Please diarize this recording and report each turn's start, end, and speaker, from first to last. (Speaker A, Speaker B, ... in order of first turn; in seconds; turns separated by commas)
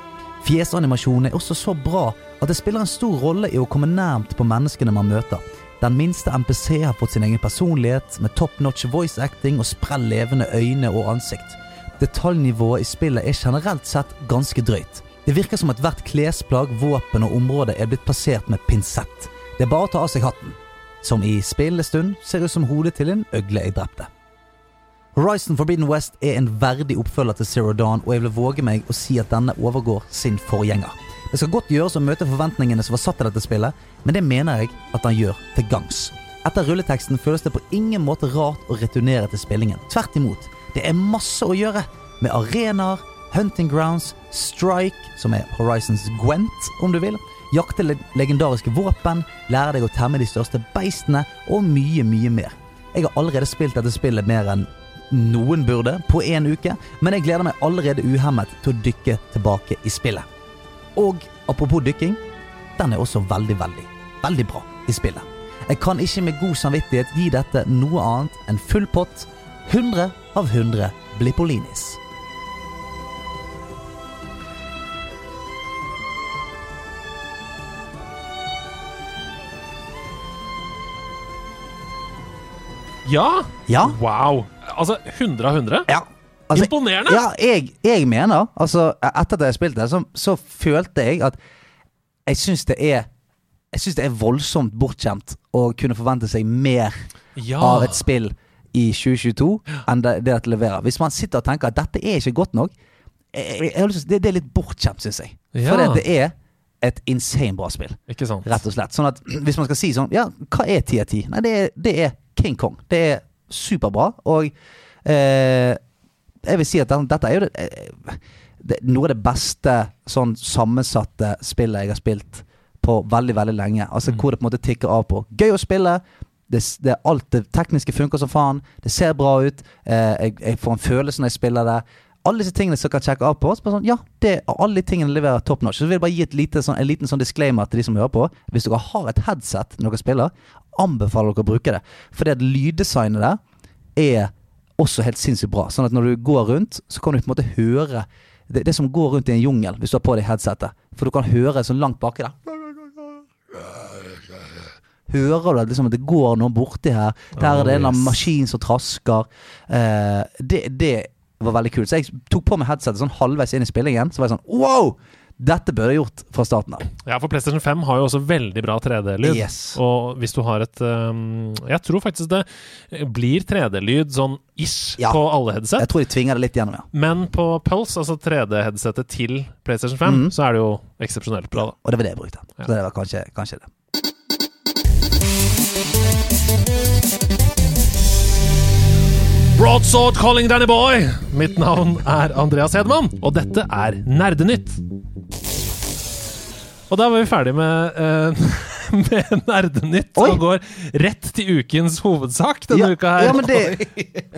Speaker A: 0.4-24.1, Speaker A: 25.1-60.3, Speaker A: 61.0-62.2, Speaker A: 62.8-72.0, Speaker B: 83.0-85.9, Speaker A: 83.7-84.0, Speaker A: 85.9-91.4, Speaker B: 86.5-87.2, Speaker A: 92.3-93.1, Speaker A: 93.7-97.0, Speaker B: 97.4-98.0, Speaker A: 97.6-102.7, Speaker A: 103.3-114.5, Speaker B: 105.5-106.0, Speaker B: 108.1-108.5, Speaker A: 115.0-115.8, Speaker A: 116.5-143.4, Speaker A: 144.0-153.1, Speaker A: 155.1-166.9, Speaker B: 157.4-158.1, Speaker B: 167.0-175.9, Speaker A: 169.2-169.8, Speaker A: 175.8-176.9, Speaker B: 176.9-181.7, Speaker A: 180.0-180.3, Speaker A: 181.5-183.7, Speaker B: 189.5-194.8, Speaker B: 196.9-203.8, Speaker A: 202.7-203.8